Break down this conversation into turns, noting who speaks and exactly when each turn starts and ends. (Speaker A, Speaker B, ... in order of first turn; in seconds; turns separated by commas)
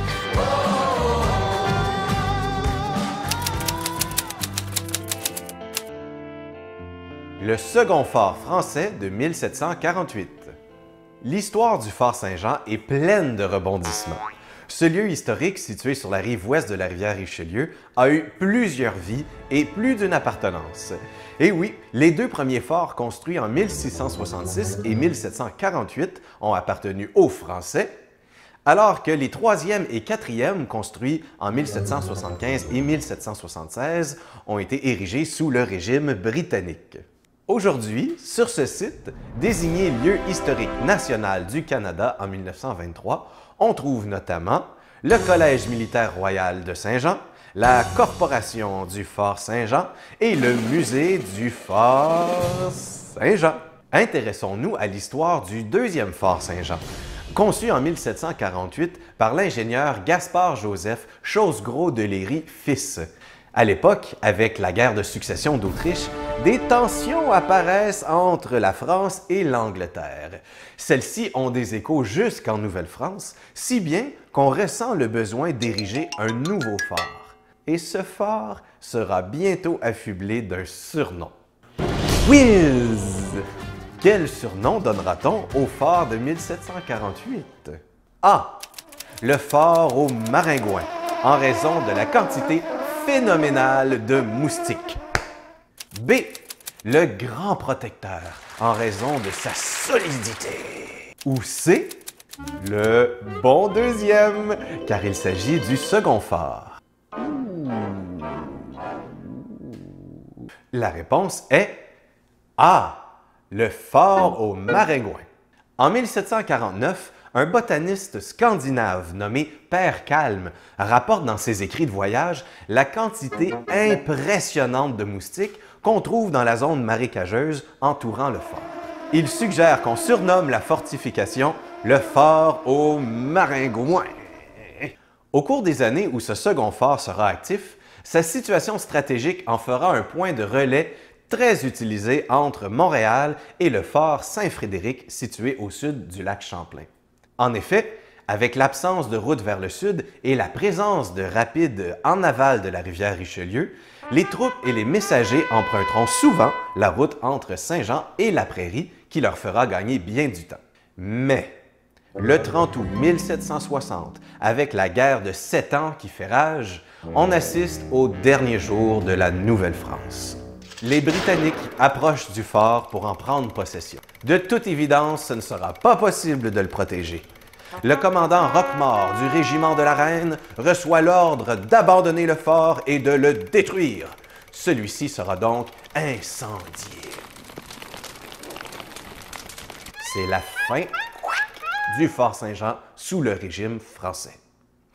Speaker A: 7.4-10.5, Speaker A: 11.2-27.9, Speaker A: 28.6-81.3, Speaker A: 82.2-83.4, Speaker A: 84.0-88.6, Speaker A: 89.2-95.0, Speaker A: 95.9-102.0, Speaker A: 102.6-108.7, Speaker A: 109.4-109.9, Speaker A: 110.7-111.8, Speaker A: 112.6-115.2, Speaker A: 115.8-161.6, Speaker A: 162.2-177.2, Speaker A: 177.8-187.2, Speaker A: 190.0-194.4